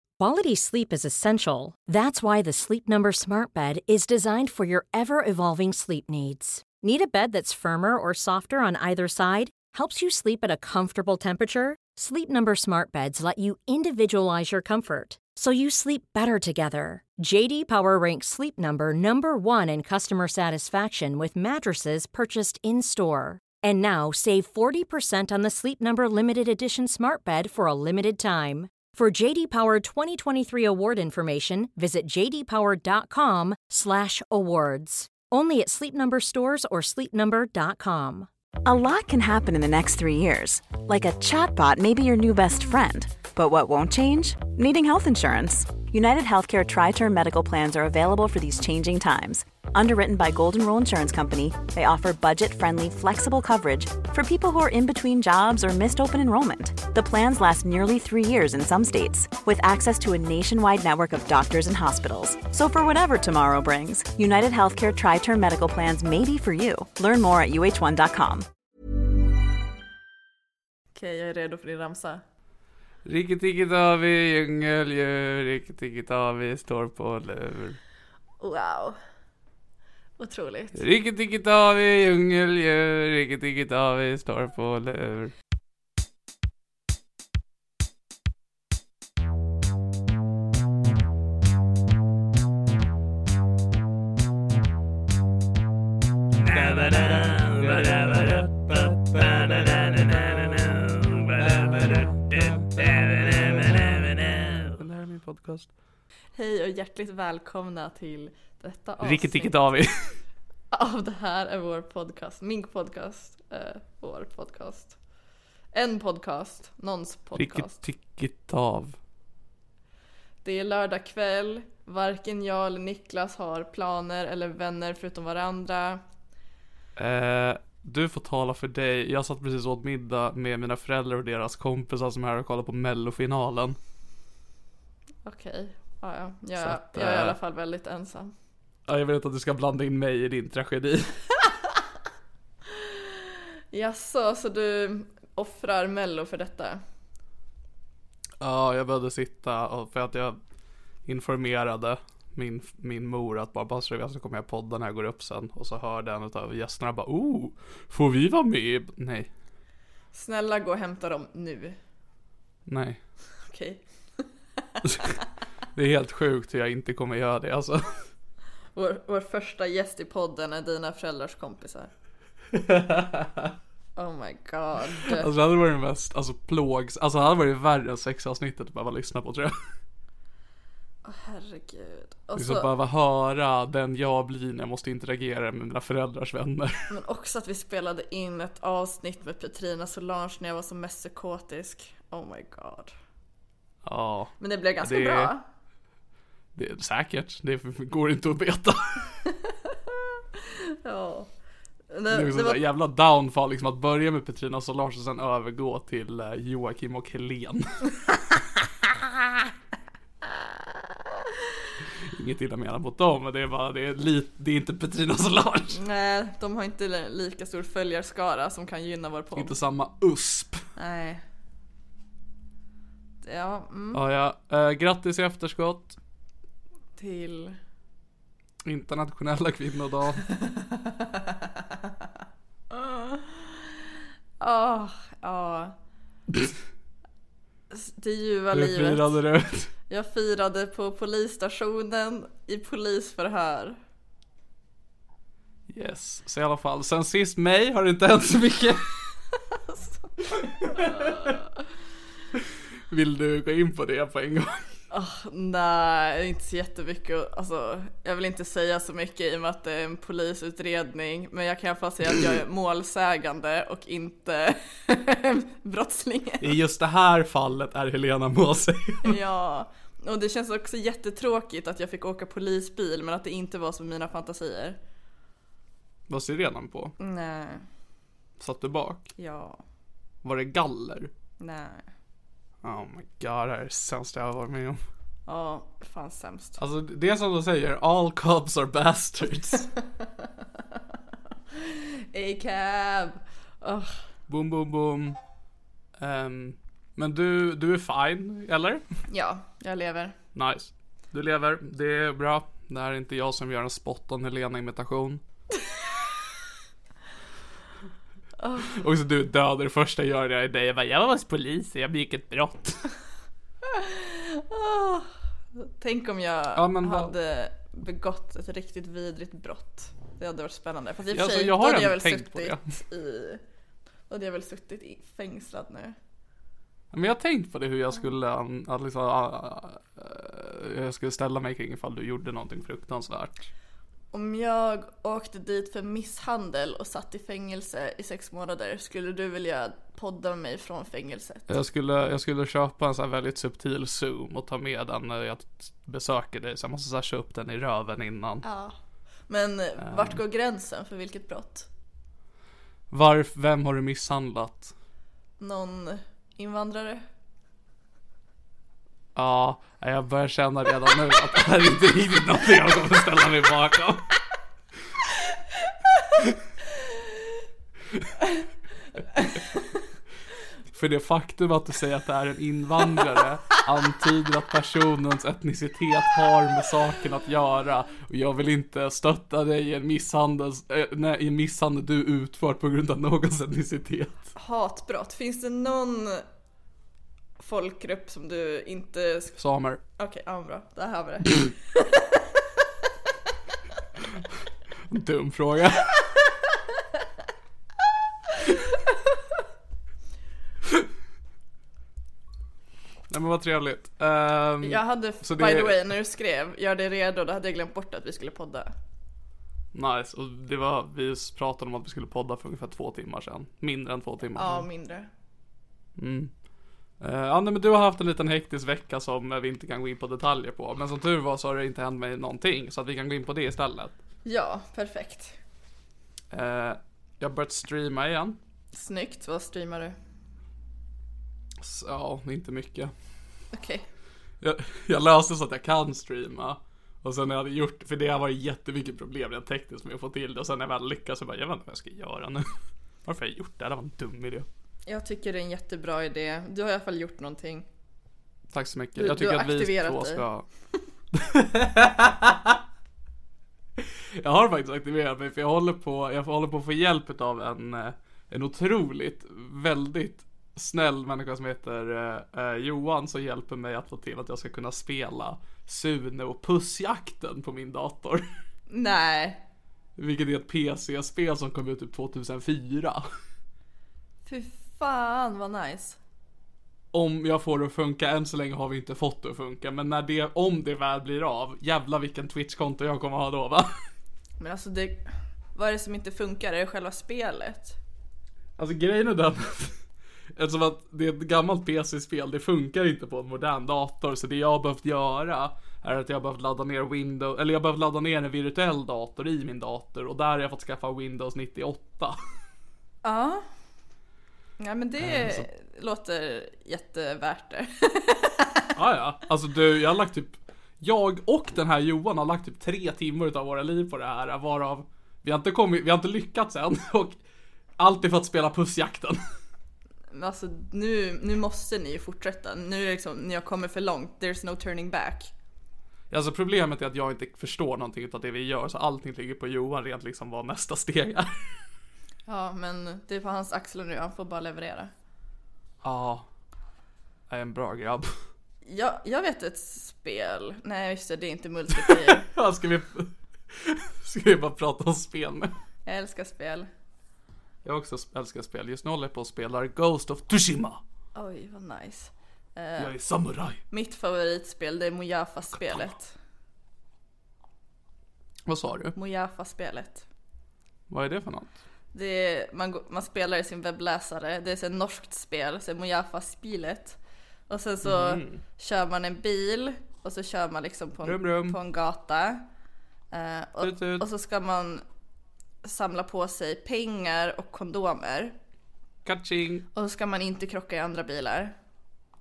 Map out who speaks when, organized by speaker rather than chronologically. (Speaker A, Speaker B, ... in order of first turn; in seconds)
Speaker A: 0.2-38.3
Speaker B: 38.6-68.5
Speaker C: 71.0-72.2, 78.4-79.0, 80.2-80.8, 106.4-109.6, 110.7-115.0, 115.7-117.8, 120.4-126.0, 135.2-138.3, 142.8-143.2, 143.7-146.8, 160.1-161.8, 163.5-165.2, 168.8-171.9, 174.0-175.3, 181.0-182.7, 186.9-192.9, 194.4-195.4, 199.3-201.3, 201.9-202.6, 210.2-211.3, 215.7-219.6, 220.8-221.2, 223.2-224.0, 227.0-227.6, 230.4-231.4, 232.7-233.8, 234.4-235.8, 237.7-239.2, 239.9-243.8, 249.7-251.5, 254.9-266.6, 269.0-274.8, 277.0-277.6, 279.2-279.6, 281.4-281.9, 285.3-286.6, 291.5-294.0, 299.1-300.2, 308.4-308.7, 313.6-323.4, 324.1-326.0, 334.1-341.5, 348.4-348.8, 349.3-351.7, 355.4-357.0, 384.4-386.2, 387.4-389.4, 390.0-392.3, 404.6-408.7, 414.4-415.1, 424.2-425.4, 428.7-429.9, 433.5-433.9, 444.9-447.7, 449.0-450.2, 468.7-469.4, 474.2-476.0, 484.4-487.8, 503.0-503.4, 504.6-508.7, 520.1-525.3, 532.3-534.9, 538.6-542.3, 545.9-546.7, 551.1-552.9, 553.7-556.1, 559.0-560.1, 561.9-567.0, 567.5-572.5, 573.1-574.8, 575.6-578.4, 579.8-581.5
Speaker D: 73.0-77.8, 80.8-85.3, 96.4-105.7, 109.0-110.2, 117.4-119.0, 127.0-133.8, 136.6-137.4, 138.9-141.2, 148.4-150.4, 151.1-159.3, 162.7-163.0, 164.8-165.1, 165.8-168.1, 172.5-173.5, 175.1-179.6, 182.4-186.9, 193.8-195.3, 196.6-199.1, 202.1-207.8, 212.0-215.8, 219.4-220.7, 223.9-226.0, 228.6-230.3, 238.5-239.7, 245.7-248.9, 250.6-251.4, 252.3-254.7, 266.4-269.2, 276.1-276.9, 278.4-279.1, 280.2-281.1, 282.6-284.8, 286.6-289.7, 294.3-295.2, 296.0-298.9, 300.4-305.2, 308.6-312.8, 316.6-317.1, 321.1-322.6, 326.9-333.5, 341.5-348.4, 349.8-350.2, 352.9-354.7, 359.1-364.1, 370.7-384.3, 389.4-389.8, 394.9-396.0, 403.1-405.9, 409.7-414.7, 416.0-416.3, 417.0-424.0, 426.3-428.4, 431.6-432.9, 434.4-442.5, 443.1-444.5, 448.5-450.5, 451.1-452.6, 453.8-468.3, 470.0-473.1, 476.9-483.8, 488.6-489.8, 490.4-502.2, 505.0-505.5, 508.8-517.2, 517.8-519.2, 526.1-531.4, 535.8-536.3, 537.3-538.1, 541.8-545.5, 547.6-550.8, 552.8-553.6, 555.5-555.9, 558.5-559.0, 560.9-561.5, 567.8-568.4, 571.0-571.6, 573.6-574.1, 579.0-579.7